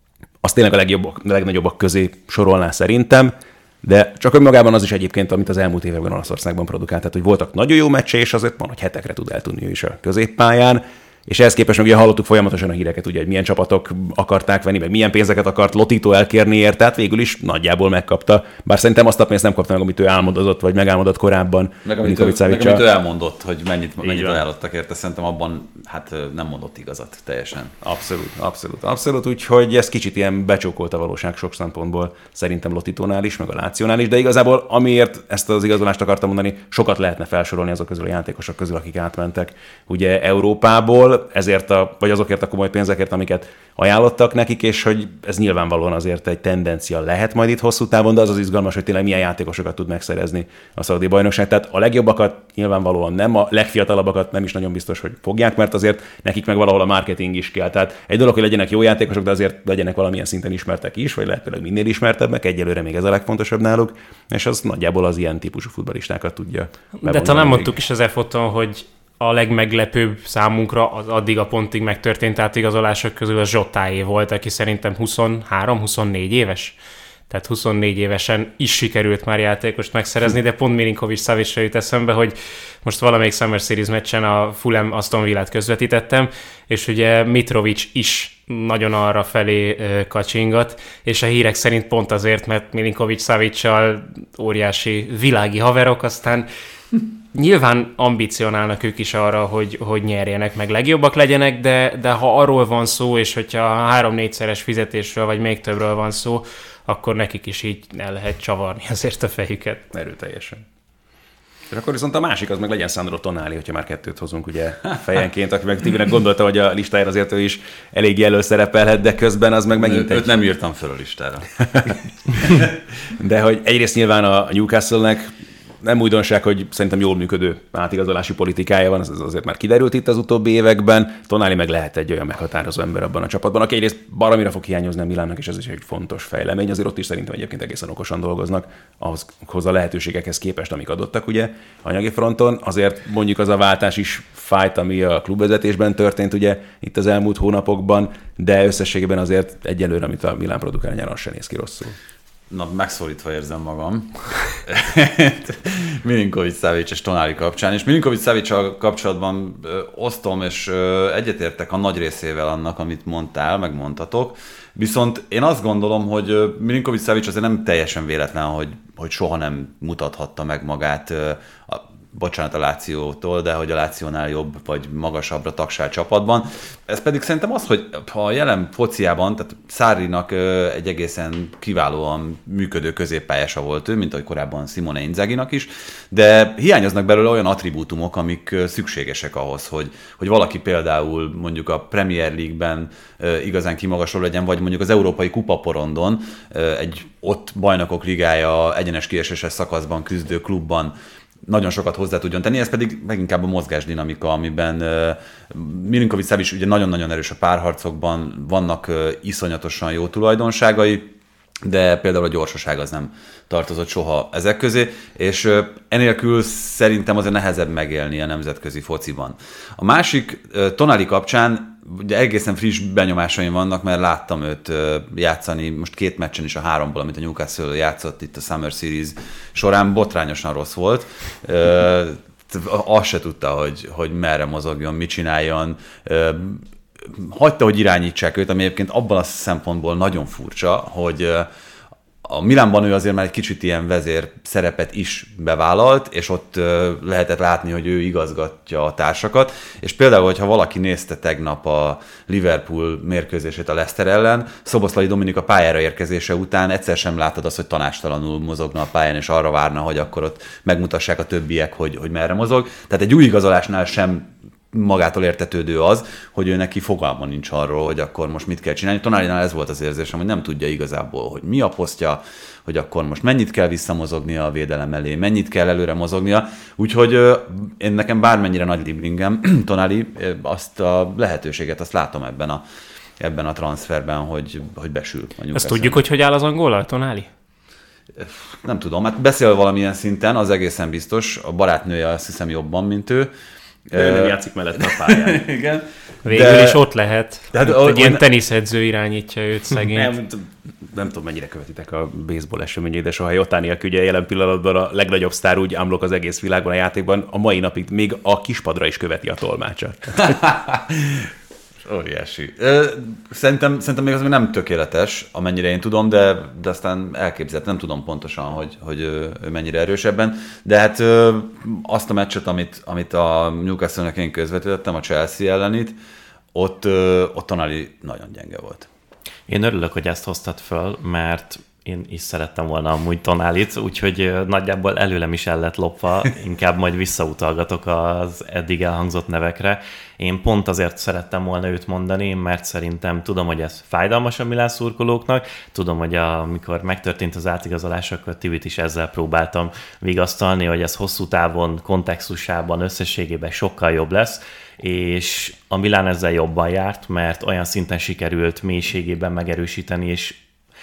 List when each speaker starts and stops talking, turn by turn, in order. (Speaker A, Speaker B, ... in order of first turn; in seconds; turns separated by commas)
Speaker A: 0.4-22.9, Speaker B: 21.9-27.8, Speaker A: 24.0-24.4, Speaker A: 27.8-67.8, Speaker C: 67.0-76.8, Speaker C: 77.3-96.5, Speaker C: 97.3-109.8, Speaker A: 109.9-110.6, Speaker A: 111.7-120.3, Speaker B: 119.8-122.7, Speaker A: 121.7-122.0, Speaker A: 123.2-152.0, Speaker B: 152.5-211.1, Speaker B: 211.6-241.5, Speaker B: 242.2-282.6, Speaker B: 283.2-286.1, Speaker C: 285.5-287.3, Speaker B: 288.2-293.3, Speaker B: 293.9-296.8, Speaker A: 293.9-295.5, Speaker C: 296.2-300.1, Speaker B: 297.5-298.2, Speaker A: 299.9-310.4, Speaker B: 310.2-311.3, Speaker B: 311.8-326.0, Speaker B: 326.5-328.9, Speaker D: 329.5-360.4